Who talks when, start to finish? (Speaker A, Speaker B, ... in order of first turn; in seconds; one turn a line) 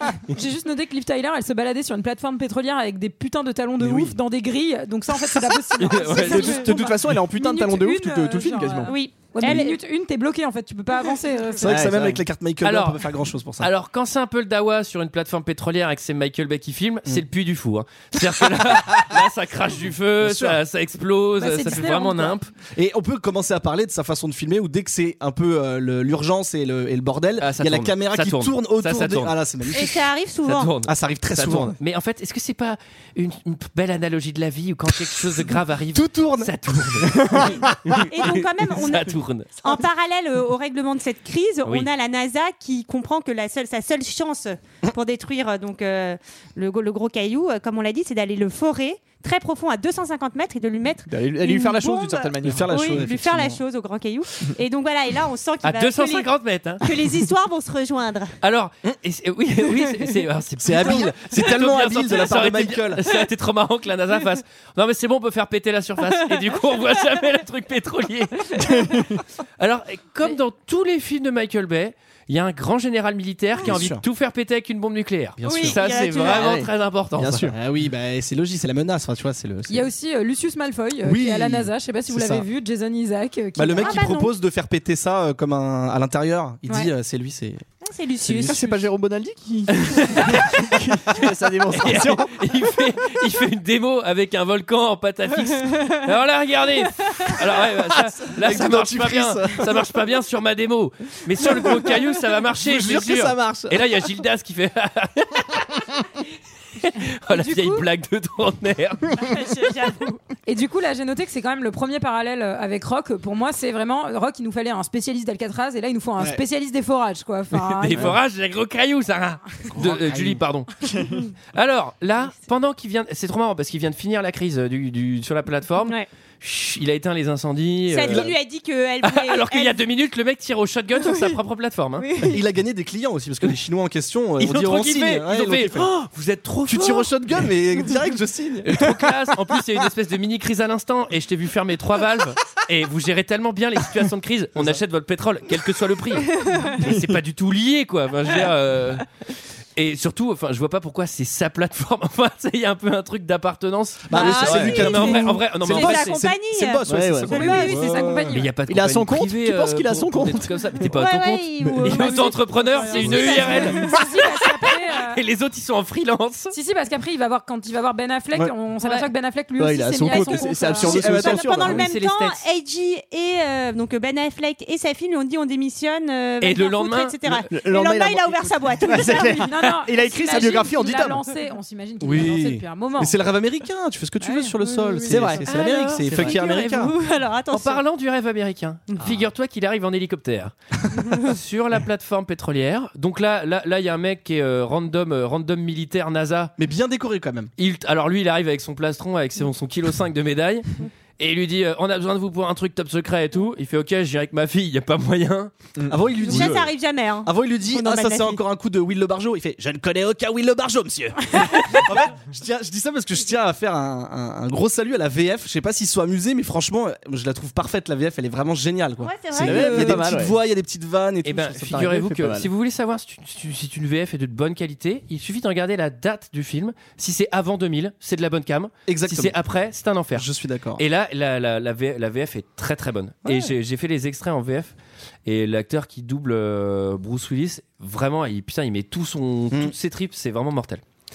Speaker A: 0.2-11.8
Speaker B: 3.8-4.1
Speaker C: 5.8-6.7
Speaker D: 6.0-8.9
Speaker E: 8.9-9.8
Speaker B: 11.6-13.7
Speaker D: 11.7-12.2
Speaker C: 12.6-13.0
Speaker C: 13.6-22.5
Speaker B: 20.2-20.6
Speaker A: 21.4-22.4
Speaker B: 22.8-30.0
Speaker C: 27.4-29.4
Speaker E: 29.7-30.7
Speaker C: 30.4-39.6
Speaker B: 30.9-31.8
Speaker B: 35.9-36.5
Speaker D: 37.2-37.7
Speaker E: 38.1-58.4
Speaker D: 51.1-53.0
Speaker B: 52.4-53.6
Speaker C: 55.6-56.9
Speaker C: 58.4-77.5
Speaker B: 60.6-63.0
Speaker D: 68.8-69.0
Speaker B: 73.6-74.0
Speaker B: 75.4-75.8
Speaker E: 75.5-76.5
Speaker D: 76.2-77.6
Speaker B: 77.5-79.9
Speaker A: 79.7-84.2
Speaker B: 81.0-82.5
Speaker B: 83.6-87.6
Speaker E: 83.8-84.3
Speaker E: 87.8-88.9
Speaker D: 88.3-92.5
Speaker C: 89.7-106.1
Speaker B: 98.3-99.6
Speaker D: 102.7-103.7
Speaker B: 103.3-103.7
Speaker C: 106.8-109.2
Speaker A: 107.3-107.9
Speaker E: 109.2-110.2
Speaker A: 110.5-118.1
Speaker C: 117.7-120.7
Speaker B: 119.8-120.4
Speaker C: 121.5-128.3
Speaker E: 127.9-129.8
Speaker C: 129.0-132.1
Speaker E: 131.0-131.4
Speaker E: 132.0-132.4
Speaker B: 132.2-135.9
Speaker C: 134.4-137.1
Speaker B: 136.7-138.9
Speaker C: 138.6-149.1
Speaker D: 146.8-147.1
Speaker C: 149.8-156.2
Speaker B: 154.1-158.3
Speaker E: 154.2-158.1
Speaker D: 154.2-154.9
Speaker D: 156.9-157.6
Speaker A: 157.3-158.5
Speaker C: 158.3-166.6
Speaker D: 158.7-160.8
Speaker E: 160.9-164.1
Speaker D: 161.6-161.9
Speaker A: 162.1-165.2
Speaker B: 163.0-163.7
Speaker A: 166.5-171.4
Speaker D: 169.6-171.8
Speaker E: 170.1-179.5
Speaker C: 170.9-172.4
Speaker C: 176.4-177.4
Speaker D: 177.5-181.3
Speaker A: 179.3-183.2
Speaker B: 182.0-186.9
Speaker A: 184.2-184.5
Speaker E: 184.6-187.8
Speaker D: 185.1-185.5
Speaker C: 185.5-186.9
Speaker C: 187.5-190.6
Speaker B: 189.0-189.3
Speaker C: 191.1-196.5
Speaker B: 196.6-197.5
Speaker C: 197.6-205.5
Speaker D: 205.8-206.6
Speaker B: 205.9-206.7
Speaker E: 206.2-208.4
Speaker B: 207.2-222.0
Speaker E: 219.0-220.0
Speaker D: 219.3-220.4
Speaker C: 221.2-230.3
Speaker D: 221.8-222.5
Speaker B: 228.9-229.4
Speaker B: 230.1-230.8
Speaker C: 230.8-234.7
Speaker B: 233.2-233.5
Speaker C: 235.3-240.8